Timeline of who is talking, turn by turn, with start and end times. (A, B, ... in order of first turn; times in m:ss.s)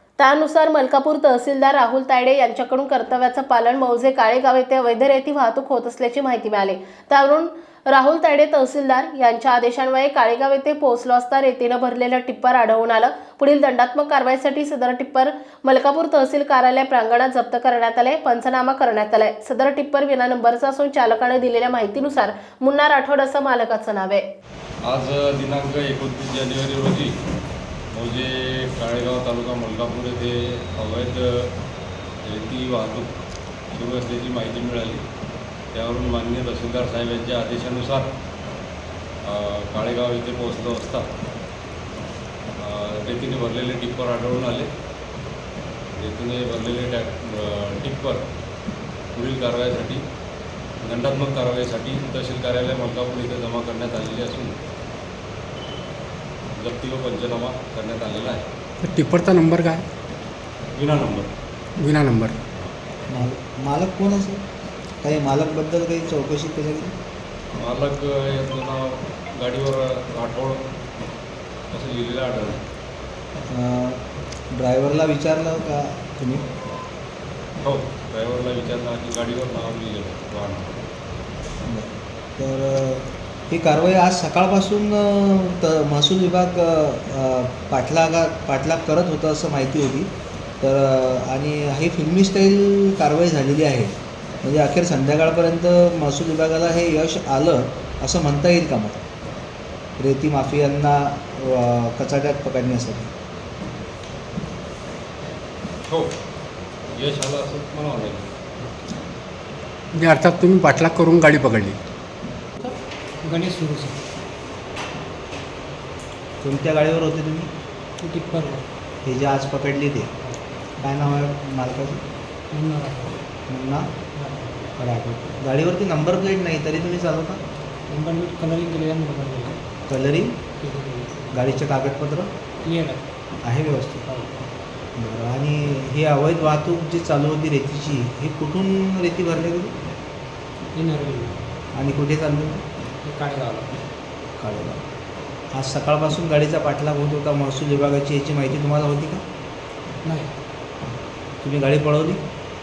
0:00.2-0:24.2 A
0:24.9-0:27.1 B
0:27.9-0:31.5 B
0:32.2-0:33.1 B
0:33.7-0:35.0 B
0:35.7-0:38.1 B
0:39.2-0:41.1 B
0:42.6-0:44.7 B
0:45.9-0:48.2 B
0:49.2-0:50.0 B
0:50.8-0:54.5 B
0:56.6-0:58.4 B
0:58.8-0:59.8 C
1:00.8-1:01.3 B
1:01.8-1:02.4 C
1:03.1-1:04.4 D
1:05.0-1:06.9 D
1:07.5-1:10.6 B
1:11.7-1:12.6 B
1:13.5-1:16.4 D
1:17.6-1:20.8 B
1:21.7-1:30.1 D
1:30.6-1:39.0 D
1:40.0-1:43.1 D
1:45.8-1:46.1 B
1:46.9-1:48.3 B
1:49.9-1:51.8 C
1:52.6-1:54.0 E
1:56.4-1:57.5 D
1:58.0-1:58.7 E
1:59.0-2:00.1 D
2:00.8-2:02.0 D
2:02.5-2:03.2 E
2:03.5-2:03.9 D
2:04.2-2:04.7 E
2:04.8-2:07.4 D
2:07.9-2:09.6 E
2:09.9-2:10.4 D
2:10.6-2:11.2 E
2:11.3-2:12.3 D
2:12.6-2:13.1 E
2:13.4-2:14.0 D
2:14.1-2:14.5 E
2:15.0-2:19.8 D
2:20.7-2:21.4 E
2:21.8-2:22.6 D
2:23.0-2:23.8 E
2:24.4-2:24.8 D
2:25.5-2:29.2 D
2:30.0-2:30.3 E
2:31.4-2:32.2 D